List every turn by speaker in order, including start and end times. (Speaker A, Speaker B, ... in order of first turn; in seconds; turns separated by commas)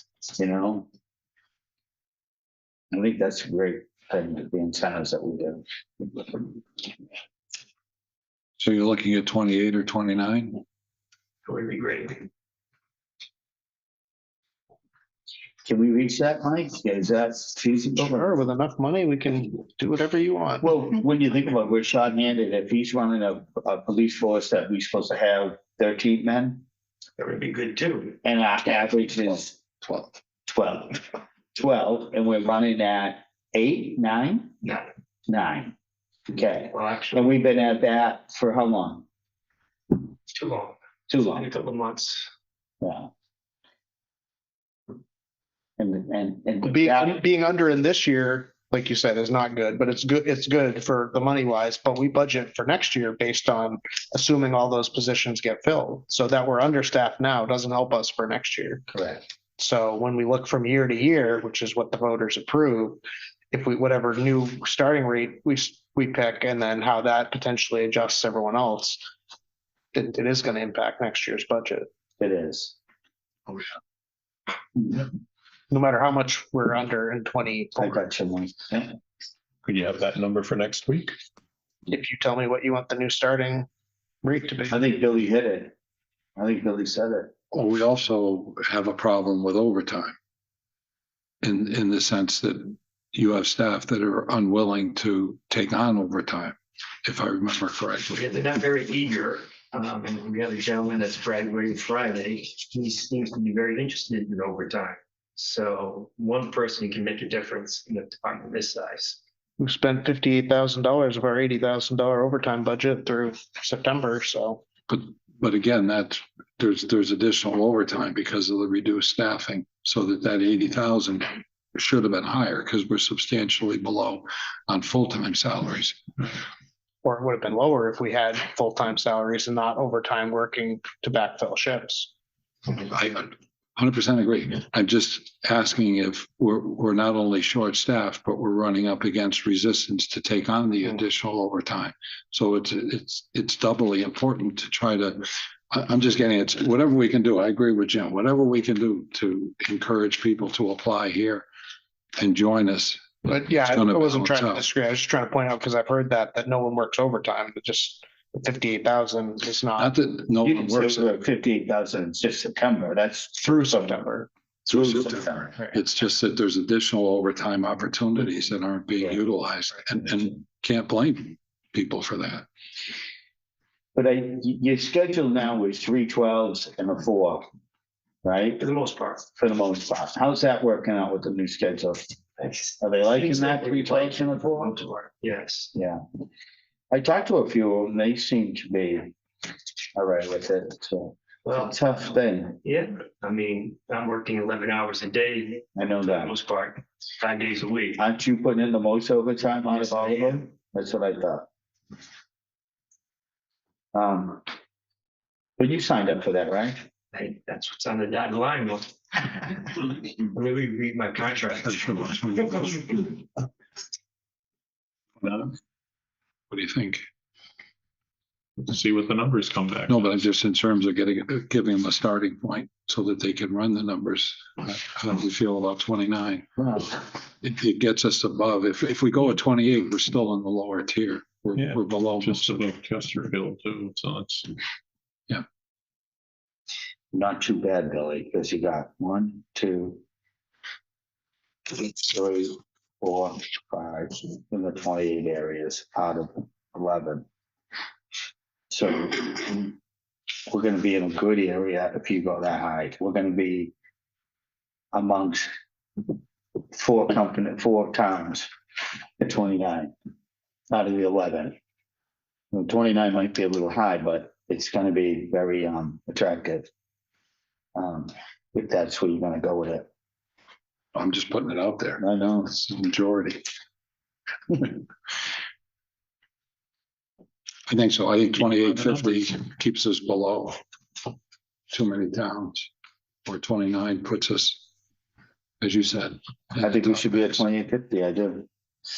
Speaker A: 0.3-0.9, Speaker A: 2.9-6.3, Speaker B: 8.6-10.6, Speaker C: 11.5-12.3, Speaker A: 15.7-18.4, Speaker D: 17.9-20.7, Speaker A: 20.6-26.6, Speaker C: 27.2-28.2, Speaker A: 28.2-29.6, Speaker A: 30.4-34.5, Speaker A: 35.3-35.7, Speaker A: 36.3-39.0, Speaker C: 36.7-37.3, Speaker C: 40.3-42.3, Speaker A: 41.1-41.5, Speaker A: 42.8-43.1, Speaker A: 45.8-47.2, Speaker D: 46.6-58.9, Speaker A: 58.9-59.2, Speaker D: 59.6-69.0, Speaker D: 69.9-71.8, Speaker A: 72.2-72.8, Speaker D: 75.7-78.0, Speaker A: 77.8-78.9, Speaker E: 79.6-81.2, Speaker D: 81.9-83.7, Speaker D: 84.2-84.8, Speaker A: 84.7-85.8, Speaker A: 86.4-87.3, Speaker B: 87.5-90.2, Speaker B: 91.4-98.2, Speaker C: 98.1-109.2, Speaker D: 109.6-114.6, Speaker B: 114.9-126.0, Speaker D: 127.0-132.1, Speaker B: 132.8-151.4, Speaker B: 152.2-154.7, Speaker D: 153.3-159.9, Speaker B: 159.8-161.2, Speaker A: 160.4-164.0, Speaker D: 163.4-164.3, Speaker A: 164.7-165.6, Speaker B: 164.7-172.4, Speaker A: 173.9-177.4, Speaker A: 178.2-178.6, Speaker C: 178.6-179.2, Speaker A: 179.3-182.0, Speaker C: 182.4-185.7, Speaker A: 182.8-184.8, Speaker A: 185.7-186.0, Speaker A: 186.9-189.1, Speaker A: 189.9-192.6, Speaker C: 191.4-191.8, Speaker C: 192.6-198.0, Speaker A: 195.8-196.3, Speaker A: 198.0-201.4, Speaker C: 199.7-200.4, Speaker A: 203.9-204.4, Speaker A: 205.6-206.8, Speaker C: 207.1-213.2, Speaker B: 211.7-212.7, Speaker B: 216.5-217.0, Speaker E: 218.6-220.0, Speaker B: 219.9-232.4, Speaker E: 231.6-234.5, Speaker A: 237.1-240.0, Speaker A: 241.7-247.2, Speaker A: 248.7-249.7, Speaker A: 250.5-253.7, Speaker A: 254.9-255.5, Speaker A: 256.7-258.5, Speaker A: 259.2-259.9, Speaker A: 260.7-261.6, Speaker A: 262.5-266.7, Speaker A: 267.8-269.9, Speaker B: 270.9-273.4, Speaker A: 272.0-272.6, Speaker B: 277.7-280.6, Speaker B: 281.7-282.7, Speaker B: 283.2-284.6, Speaker B: 285.6-287.4, Speaker A: 286.6-288.5